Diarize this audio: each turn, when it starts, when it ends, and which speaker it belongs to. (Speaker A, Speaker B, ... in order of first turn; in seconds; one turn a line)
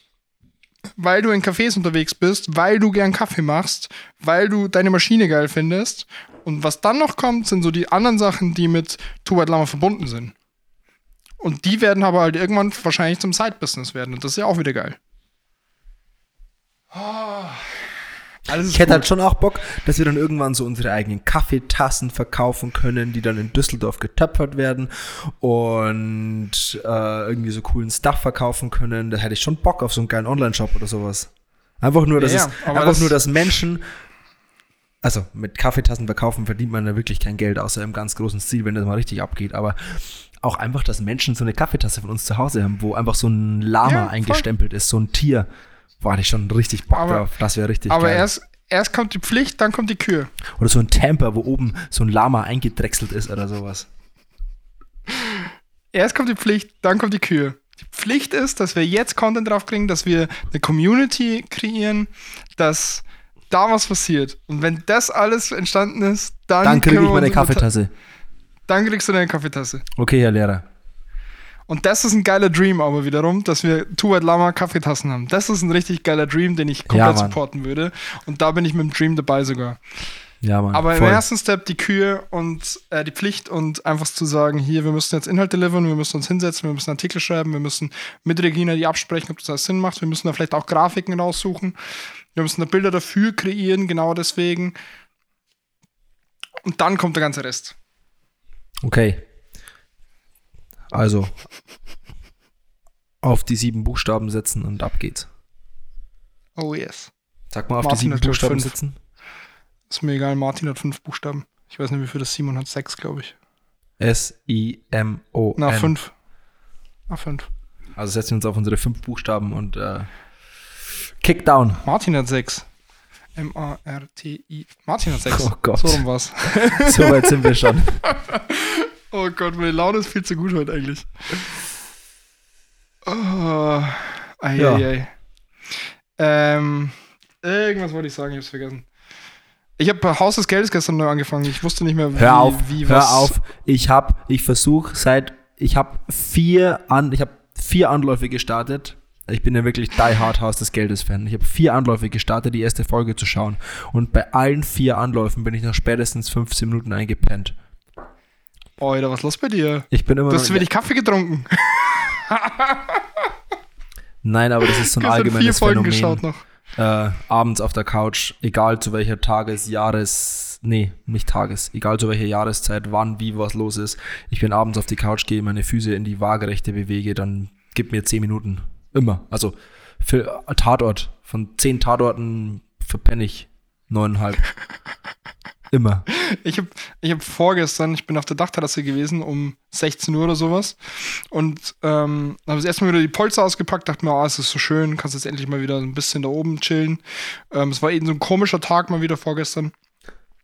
Speaker A: 1.0-10.3
Speaker A: 11.4-15.0
Speaker A: 16.9-17.7
Speaker A: 18.5-19.1
Speaker B: 18.7-33.8
Speaker A: 32.2-33.2
Speaker B: 35.0-45.5
Speaker A: 43.9-44.5
Speaker B: 46.0-48.3
Speaker A: 46.9-47.2
Speaker A: 47.9-50.3
Speaker B: 50.6-53.9
Speaker A: 55.9-67.7
Speaker B: 66.6-67.9
Speaker A: 68.7-69.8
Speaker B: 70.0-70.7
Speaker A: 71.7-79.8
Speaker B: 76.9-77.4
Speaker B: 80.4-81.2
Speaker A: 80.7-91.8
Speaker A: 92.3-94.8
Speaker A: 96.7-97.8
Speaker B: 98.8-99.2
Speaker B: 100.9-101.3
Speaker B: 103.2-105.3
Speaker A: 106.6-107.1
Speaker B: 107.5-109.0
Speaker A: 107.8-108.8
Speaker A: 109.9-113.3
Speaker B: 114.0-115.9
Speaker A: 115.6-116.1
Speaker A: 117.1-117.5
Speaker B: 118.0-120.1
Speaker B: 121.2-121.8
Speaker A: 121.8-122.7
Speaker A: 123.4-127.5
Speaker B: 125.3-126.0
Speaker B: 126.8-128.0
Speaker A: 128.0-131.6
Speaker A: 133.1-135.1
Speaker B: 134.6-134.9
Speaker A: 136.2-138.9
Speaker A: 139.8-143.4
Speaker B: 142.2-157.6
Speaker A: 158.8-163.2
Speaker B: 159.9-160.7
Speaker B: 164.2-166.2
Speaker A: 164.8-166.4
Speaker B: 166.8-184.4
Speaker B: 185.7-186.1
Speaker A: 186.1-197.0
Speaker A: 197.5-199.7